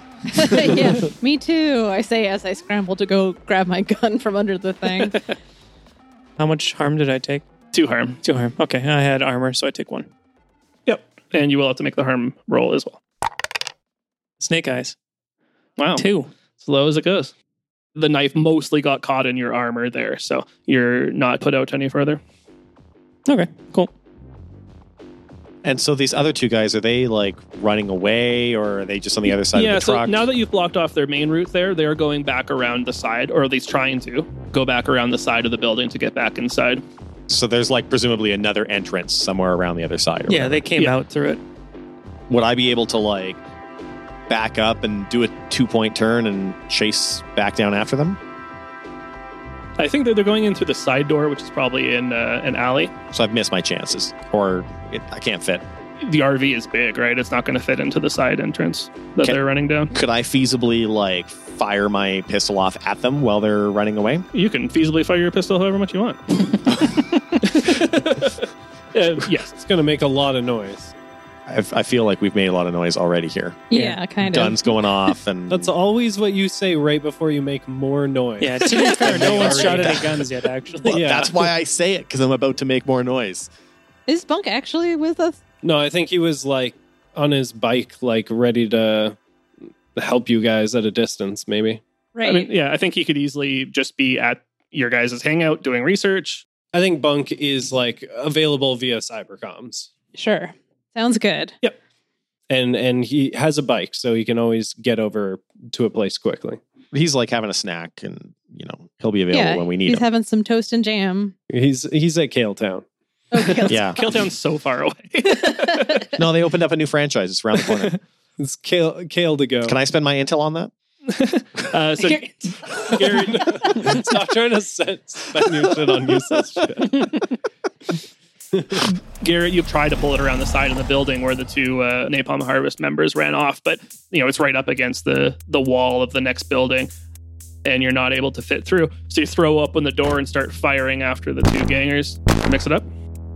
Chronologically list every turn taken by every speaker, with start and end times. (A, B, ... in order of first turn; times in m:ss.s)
0:00.3-0:05.2 A
0:00.5-0:00.9 B
0:06.4-0:07.4 B
0:07.7-0:08.2 C
0:08.2-0:10.1 B
0:10.9-0:13.0 C
0:14.4-0:15.0 B
0:15.8-0:16.0 C
0:16.0-0:16.3 B
0:16.6-0:17.3 C
0:18.0-0:22.2 C
0:23.3-0:23.9 B
0:25.6-0:30.2 D
0:29.5-0:36.8 C
0:37.3-0:40.7 D
0:40.3-0:41.4 B
0:42.3-0:43.4 D
0:44.3-0:48.2 D
0:49.8-0:52.9 C
0:53.1-0:55.6 D
0:56.0-0:59.9 C
0:59.9-1:04.2 D
1:04.3-1:06.6 C
1:06.7-1:07.0 D
1:07.4-1:09.5 C
1:09.5-1:10.9 E
1:11.5-1:13.6 D
1:13.7-1:14.7 A
1:13.7-1:14.0 B
1:14.2-1:15.7 D
1:15.5-1:20.2 E
1:18.4-1:21.1 B
1:19.0-1:20.2 D
1:20.8-1:23.5 D
1:20.9-1:21.4 E
1:24.1-1:25.4 A
1:25.6-1:29.2 E
1:29.9-1:31.8 E
1:32.1-1:32.5 A
1:32.2-1:36.4 C
1:36.7-1:39.9 E
1:40.1-1:41.5 A
1:42.5-1:46.6 E
1:46.9-1:50.0 D
1:49.3-1:51.3 A
1:51.5-1:52.8 E
1:53.3-1:54.2 A
1:53.5-1:56.1 C
1:53.7-1:54.0 D
1:55.3-1:56.1 A
1:56.2-1:58.0 D
1:58.4-1:59.8 E
1:59.6-2:00.7 D
2:01.1-2:03.8 C
2:02.0-2:03.0 A
2:02.9-2:07.1 E
2:08.5-2:08.9 E
2:08.8-2:16.9 C
2:17.6-2:22.9 C